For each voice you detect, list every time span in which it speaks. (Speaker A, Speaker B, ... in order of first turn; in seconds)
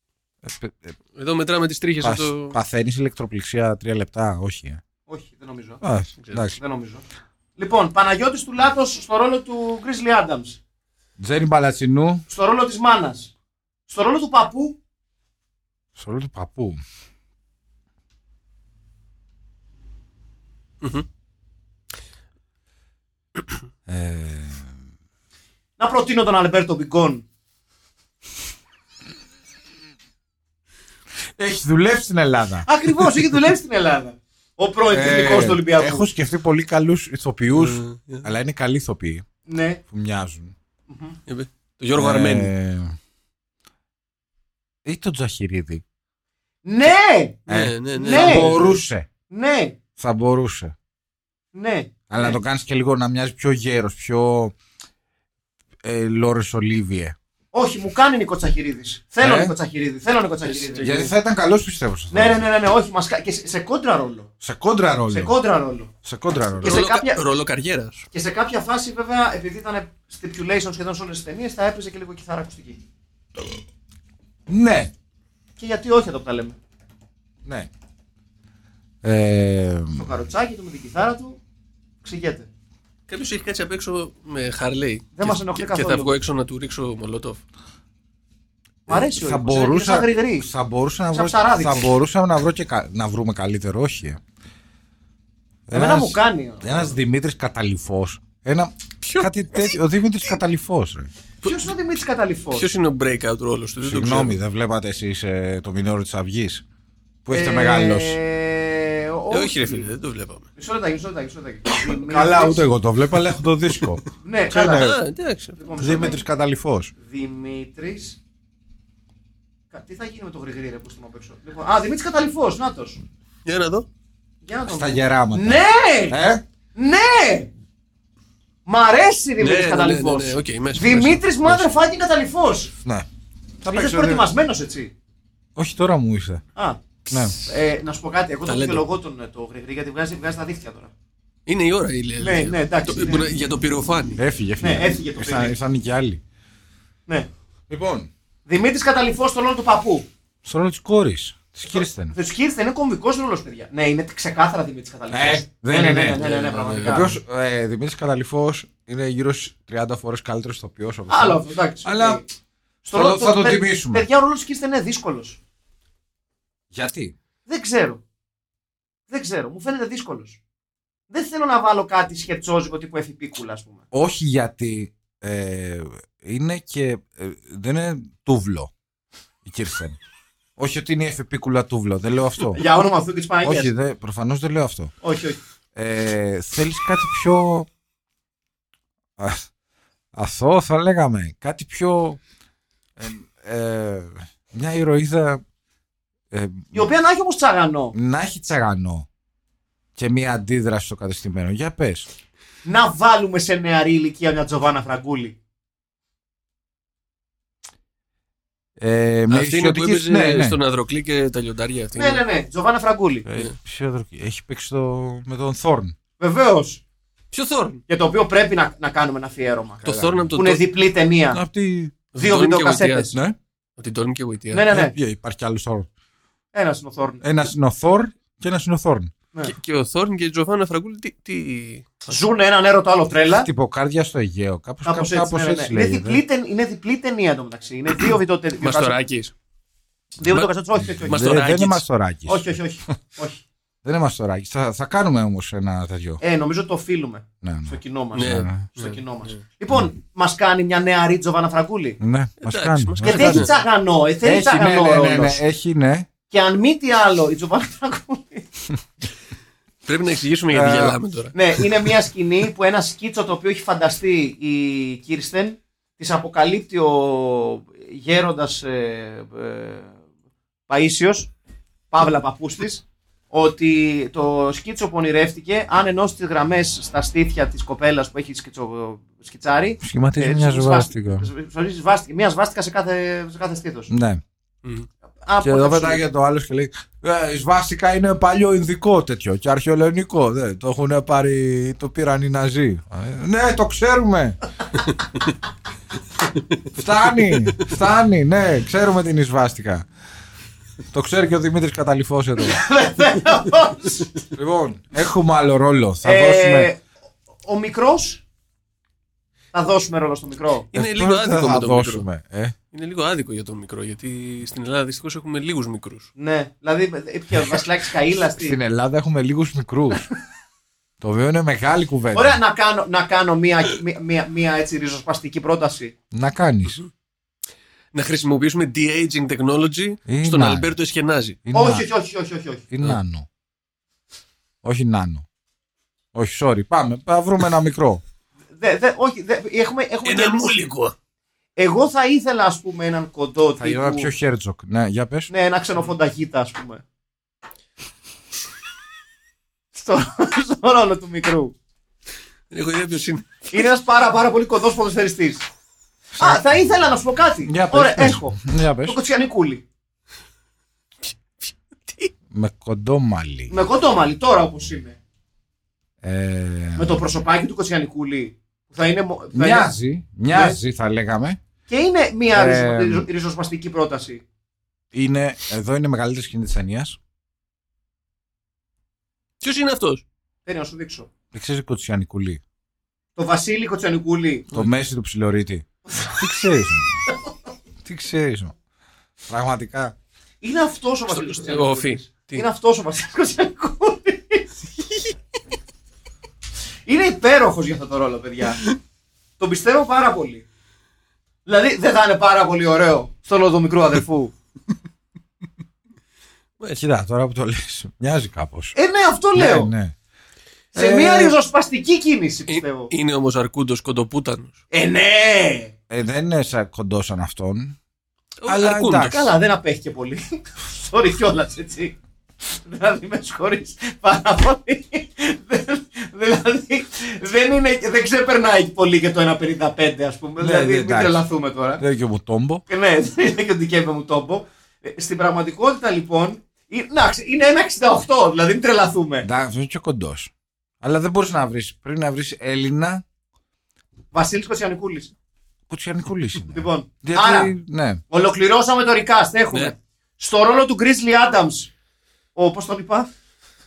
Speaker A: 0.4-1.0, 2.0-4.8, 5.8-6.6, 11.2-12.2, 16.0-16.8, 23.9-24.8, 31.4-32.7, 34.9-39.2, 39.9-40.5, 42.0-43.0, 44.9-45.8, 47.5-49.1, 50.0-50.7, 52.1-54.5, 55.8-57.2, 59.2-59.5, 60.8-62.5, 64.4-65.3, 66.0-66.8, 74.5-74.9, 77.5-77.7, 79.0-80.1, 88.9-94.2, 95.7-101.1, 103.8-106.6, 107.2-108.2, 111.9-114.0, 114.5-115.0, 115.8-116.9, 124.7-126.4, 133.6-134.3, 135.6-136.4, 137.1-137.3, 144.2-146.2, 147.7-148.1, 150.4-152.2, 155.1-162.2, 162.9-164.1, 166.7-167.2, 173.9-178.7, 179.4-180.0, 180.6-182.6, 183.4-184.9, 185.8-187.7, 189.2-189.5, 190.1-192.2, 193.0-195.4, 196.3-196.9, 197.9-199.1, 200.0-202.1, 208.8-210.6, 213.2-215.9, 219.8-220.3, 221.3-222.0, 224.7-225.9, 227.2-229.1, 233.3-236.2, 241.1-242.9, 243.8-246.2, 247.4-248.6, 252.0-253.5, 254.2-256.1, 260.5-261.0, 279.8-281.3, 283.9-284.2, 285.4-294.4, 296.7-299.9, 300.9-302.6, 304.3-306.7, 310.7-312.6, 318.4-320.1, 321.0-322.4, 326.1-326.8, 330.1-330.7, 331.4-331.9, 332.7-333.3, 334.6-335.3, 336.1-338.0, 343.6-345.3, 356.1-356.4, 357.4-359.0, 362.3-363.5, 366.0-367.0, 369.3-371.4, 372.3-373.1, 374.9-377.0, 381.3-382.4, 384.5-387.0, 387.9-388.6, 389.3-389.9, 406.8-408.8, 409.4-409.9, 410.7-411.4, 415.9-417.8, 418.5-419.3, 430.4-431.2, 431.8-432.6, 439.2-443.0, 445.7-448.0
Speaker B: 1.1-2.5, 6.2-6.4, 37.5-38.3, 41.3-42.5, 47.5-48.8, 60.4-61.1, 66.6-68.0, 83.1-87.4, 99.0-99.3, 101.4-101.7, 102.5-104.4, 109.3-110.5, 114.5-116.1, 123.5-123.9, 129.4-131.7, 138.5-138.8, 141.5-144.2, 156.2-157.1, 209.3-212.2, 217.3-217.8, 219.8-220.7, 222.1-223.2, 223.8-224.7, 229.4-232.2, 238.6-239.3, 240.2-240.5, 241.0-241.8, 248.2-249.4, 252.4-253.6, 259.9-261.4, 310.7-312.1, 312.7-316.1, 327.9-331.4, 340.1-340.9, 352.5-353.4, 361.1-362.1, 379.4-380.0, 391.1-392.4, 412.5-414.6, 418.4-419.3
Speaker C: 5.1-5.8, 6.5-7.0, 7.6-10.6, 12.3-13.3, 13.9-14.8, 25.8-27.2, 32.6-36.1, 39.5-39.8, 40.9-41.2, 46.6-47.4, 47.9-48.6, 49.3-49.8, 51.5-52.4, 57.5-61.0, 62.1-64.3, 65.1-65.9, 66.6-67.2, 68.1-72.8, 75.6-76.6, 80.0-81.4, 82.0-82.5, 85.2-86.1, 88.9-90.5, 91.1-92.0, 95.7-97.0, 101.4-102.7, 107.3-109.9, 110.6-112.7, 114.2-115.0, 115.6-116.2, 117.0-118.2, 119.7-123.0, 124.4-126.2, 126.8-127.5, 128.7-132.7, 133.7-134.9, 136.6-136.8, 137.3-140.9, 142.2-143.3, 144.6-145.6, 148.5-150.1, 151.8-157.1, 161.1-162.2, 162.8-165.4, 167.5-168.0, 169.1-170.4, 171.1-173.8, 182.6-183.7, 185.0-185.4, 196.7-197.9, 202.7-205.4, 212.0-213.3, 216.2-216.8, 217.9-221.4, 222.2-223.2, 224.5-224.9, 226.5-227.3, 232.1-233.5, 234.8-239.0, 240.2-241.4, 242.3-243.4, 246.2-252.0, 253.0-255.4, 256.3-258.5, 261.3-270.0, 270.7-271.3, 271.9-283.9, 285.2-286.1, 302.4-304.1, 306.0-306.8, 307.4-308.2, 309.5-310.7, 316.2-318.6, 322.1-325.9, 331.5-332.6, 338.6-340.6, 341.6-344.1, 345.3-346.8, 349.7-351.5, 353.5-355.5, 356.2-359.6, 363.5-365.0, 366.8-369.7, 370.3-370.6, 371.7-374.2, 380.5-381.1, 383.2-384.5, 385.9-386.2, 390.4-394.5, 396.9-398.6, 399.4-400.5, 401.5-404.3, 408.8-409.7, 410.7-412.9, 414.7-415.7, 419.1-431.8, 432.7-439.3, 444.1-445.1, 446.5-447.5, 448.1-451.7, 452.4-453.1